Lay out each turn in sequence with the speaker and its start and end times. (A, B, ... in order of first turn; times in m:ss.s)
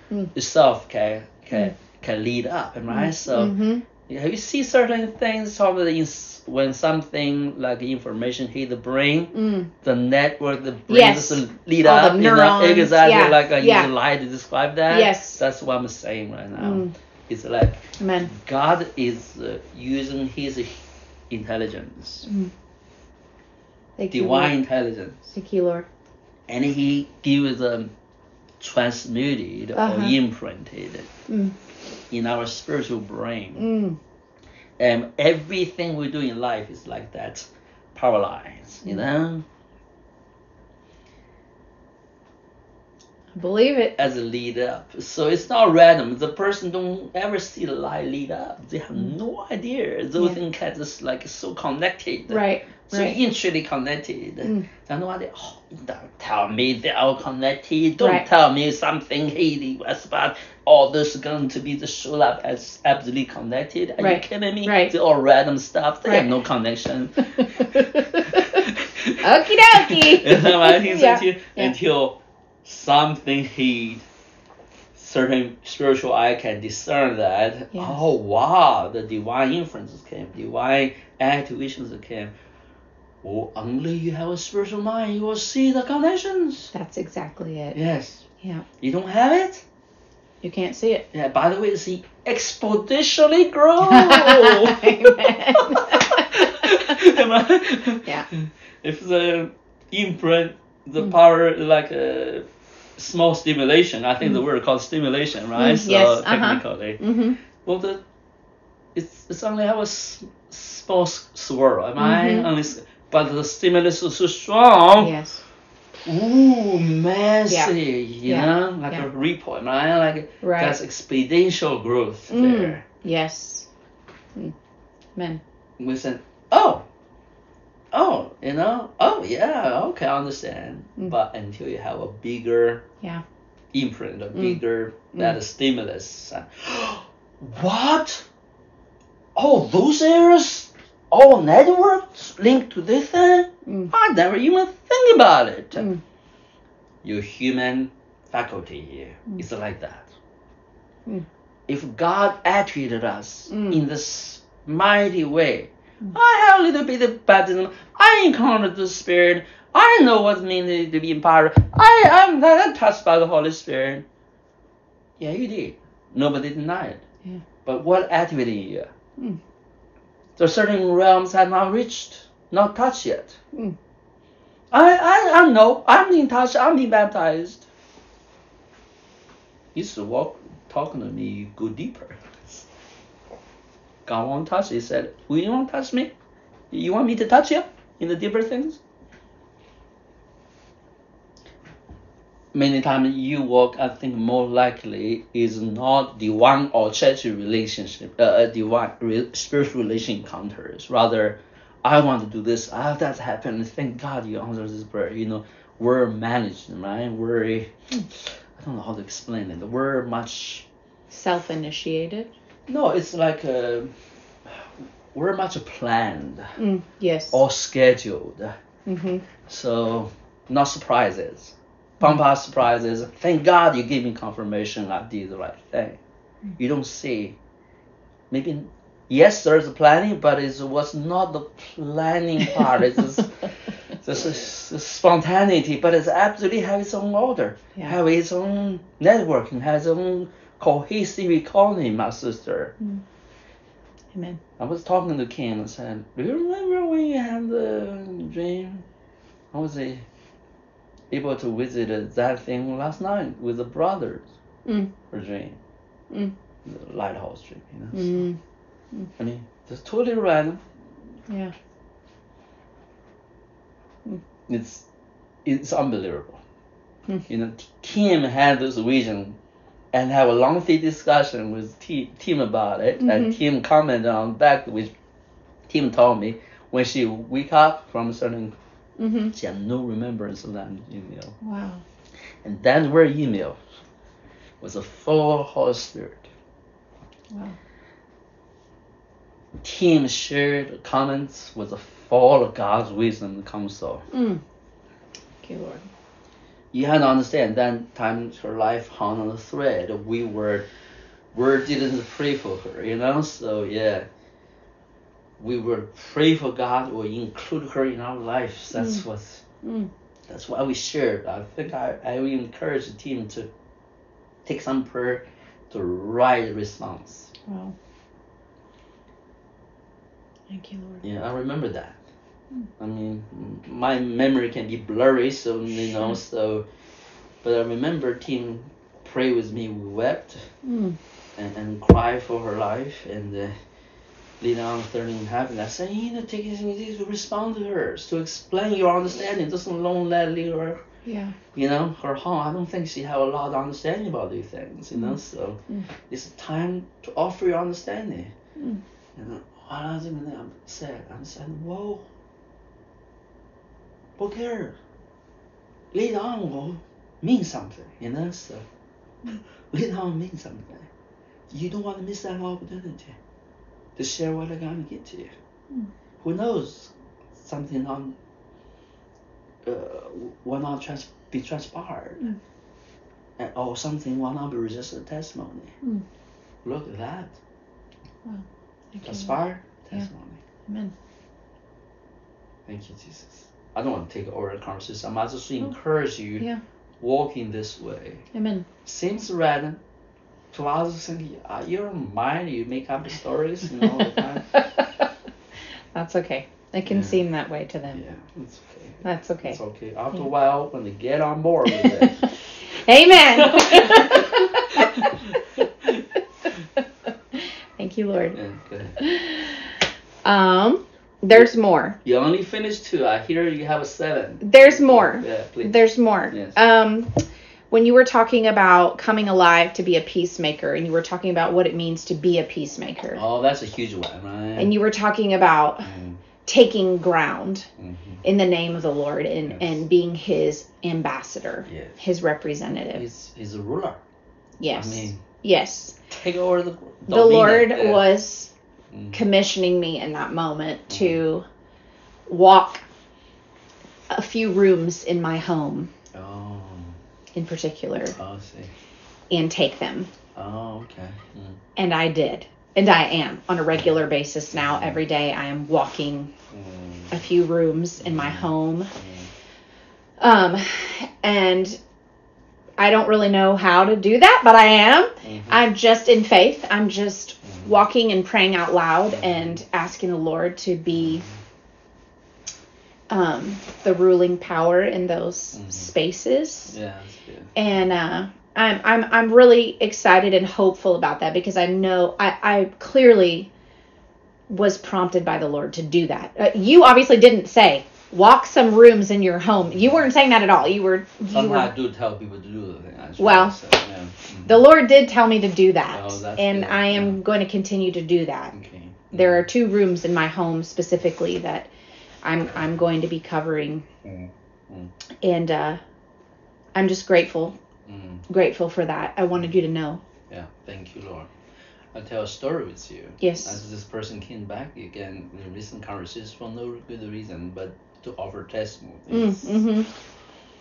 0:00.3-0:20.8 A
0:02.9-0:03.8 B
0:09.3-0:09.7 B
0:10.9-0:13.9 B
0:14.9-0:15.4 B
0:16.6-0:16.9 B
0:18.0-0:18.3 B
0:21.3-0:22.3 A
0:22.3-0:22.5 B
0:24.0-0:24.5 B
0:24.1-0:25.3 A
0:25.3-0:25.9 B
0:26.5-0:27.9 A
0:28.6-0:31.1 A
0:29.8-0:30.2 B
0:31.3-0:31.6 B
0:32.1-0:33.7 A
0:33.6-0:34.0 B
0:34.8-0:39.5 A
0:43.4-0:44.0 B
0:44.0-1:14.0 A
0:52.3-0:53.2 B
0:58.0-0:58.3 B
1:04.0-1:04.9 B
1:06.0-1:06.3 B
1:07.4-1:08.6 B
1:09.2-1:11.8 B
1:15.0-1:22.3 A
1:17.7-1:18.0 B
1:23.2-1:26.7 A
1:26.7-1:27.8 B
1:27.7-1:28.2 A
1:28.4-1:28.7 B
1:28.8-1:29.6 A
1:30.4-1:31.1 B
1:31.1-1:42.4 A
1:33.8-1:37.0 B
1:43.0-1:47.0 A
1:45.6-1:47.4 B
1:47.6-1:48.0 A
1:49.0-1:55.1 A
1:52.0-1:52.5 B
1:55.0-1:55.4 B
1:56.0-2:02.8 A
1:57.5-1:57.7 B
1:58.3-1:59.1 B
2:00.4-2:00.8 B
2:02.3-2:03.7 B
2:05.2-2:05.4 B
2:05.8-2:06.8 A
2:07.9-2:12.9 A
2:13.7-2:18.3 A
2:14.4-2:14.6 B
2:19.4-2:25.9 A
2:23.7-2:23.9 B
2:25.8-2:26.0 B
2:27.0-2:30.1 A
2:31.7-2:44.1 A
2:33.5-2:33.8 B
2:45.2-2:47.1 A
2:47.6-2:48.9 A
2:50.4-2:53.4 A
2:54.7-2:57.7 A
2:59.7-3:02.7 A
3:04.1-3:06.1 A
3:06.7-3:08.8 A
3:12.5-3:30.7 A
3:31.1-3:32.3 B
3:32.7-3:33.9 A
3:34.5-3:36.6 A
3:36.6-3:37.4 B
3:37.3-3:38.6 A
3:38.9-3:39.2 B
3:39.5-3:46.0 A
3:46.6-3:47.4 A
3:48.3-3:53.5 A
3:54.0-4:02.8 A
4:04.1-4:04.4 B
4:04.6-4:08.8 A
4:09.5-4:10.0 A
4:11.1-4:14.3 A
4:14.6-4:14.9 B
4:15.1-4:15.6 A
4:16.6-4:18.2 A
4:17.9-4:18.4 B
4:19.2-4:20.6 A
4:21.3-4:21.5 B
4:24.5-4:24.8 A
4:25.4-4:26.4 A
4:27.3-4:29.4 A
4:29.9-4:34.9 A
4:33.0-4:33.4 B
4:35.7-4:38.6 A
4:39.0-4:39.4 B
4:39.3-4:41.4 A
4:41.4-4:41.8 B
4:42.4-4:43.6 A
4:44.6-4:46.3 A
4:47.3-4:47.6 B
4:49.6-4:54.1 A
4:54.1-4:54.4 B
4:55.4-4:55.9 B
4:56.7-5:00.7 A
5:01.3-5:04.1 A
5:05.4-5:09.4 A
5:08.7-5:09.0 B
5:09.6-5:09.9 B
5:10.3-5:13.5 A
5:14.4-5:17.3 A
5:17.5-5:17.8 B
5:20.5-5:21.0 B
5:21.0-5:22.0 A
5:22.8-5:26.7 A
5:27.4-5:30.5 A
5:30.6-5:31.0 B
5:31.4-5:33.6 A
5:34.4-5:40.8 A
5:41.0-5:41.4 B
5:41.5-5:48.3 A
5:44.9-5:45.9 B
5:48.6-5:48.8 B
5:49.2-5:52.1 A
5:54.2-5:54.8 A
5:55.9-5:58.6 A
5:59.7-6:00.9 A
6:01.5-6:03.2 A
6:04.0-6:05.3 A
6:06.2-6:08.2 A
6:09.6-6:12.3 A
6:13.4-6:15.8 A
6:16.6-6:17.4 A
6:18.2-6:19.3 B
6:19.0-6:20.4 A
6:20.7-6:20.9 B
6:22.7-6:26.5 A
6:27.0-6:28.3 A
6:28.3-6:28.7 B
6:28.8-6:29.8 A
6:30.5-6:34.6 A
6:35.9-6:38.0 B
6:36.9-6:37.2 A
6:37.9-6:42.3 A
6:39.0-6:39.6 B
6:41.7-6:45.3 B
6:43.2-6:46.0 A
6:46.4-6:46.8 B
6:47.3-6:48.4 B
6:48.3-6:49.0 A
6:49.0-6:52.0 B
6:52.0-6:55.8 A
6:54.4-7:03.2 B
6:56.3-6:56.6 A
7:03.1-7:04.7 A
7:04.6-7:05.9 B
7:05.8-7:06.2 A
7:06.4-7:07.7 B
7:07.8-7:08.2 A
7:08.2-7:13.0 B
7:09.4-7:09.8 A
7:11.7-7:12.0 A
7:12.9-7:14.0 A
7:14.6-7:16.0 B
7:14.7-7:15.2 A
7:16.1-7:18.1 A
7:17.1-7:18.5 B
7:18.9-7:19.2 A
7:19.1-7:21.5 B
7:20.9-7:21.2 A
7:22.3-7:22.8 B
7:24.1-7:25.9 B
7:26.1-7:27.0 A
7:27.4-7:28.2 B
7:28.1-7:28.7 A
7:29.3-7:30.1 B
7:30.4-7:31.6 A
7:31.8-7:36.3 B
7:34.5-7:35.0 A
7:36.5-7:37.2 A
7:37.1-7:38.9 B
7:38.0-7:39.3 A
7:40.2-7:41.8 B
7:42.8-7:51.2 B
7:45.2-7:45.6 A
7:47.4-7:47.7 A
7:49.1-7:49.6 A
7:50.9-7:51.4 A
7:53.1-7:56.7 B
7:55.5-7:55.9 A
7:56.7-7:57.5 A
7:57.6-8:03.5 B
8:04.5-8:11.7 B
8:09.7-8:10.0 A
8:11.3-8:14.6 A
8:13.2-8:13.6 B
8:14.5-8:18.5 B
8:15.9-8:17.2 A
8:18.5-8:19.5 A
8:19.1-8:21.7 B
8:22.2-8:23.9 B
8:24.0-8:24.9 A
8:25.2-8:25.8 B
8:26.8-8:27.6 B
8:27.9-8:28.3 A
8:28.3-8:30.0 B
8:30.3-8:31.3 A
8:32.0-8:39.6 A
8:33.2-8:33.6 B
8:39.1-8:39.9 B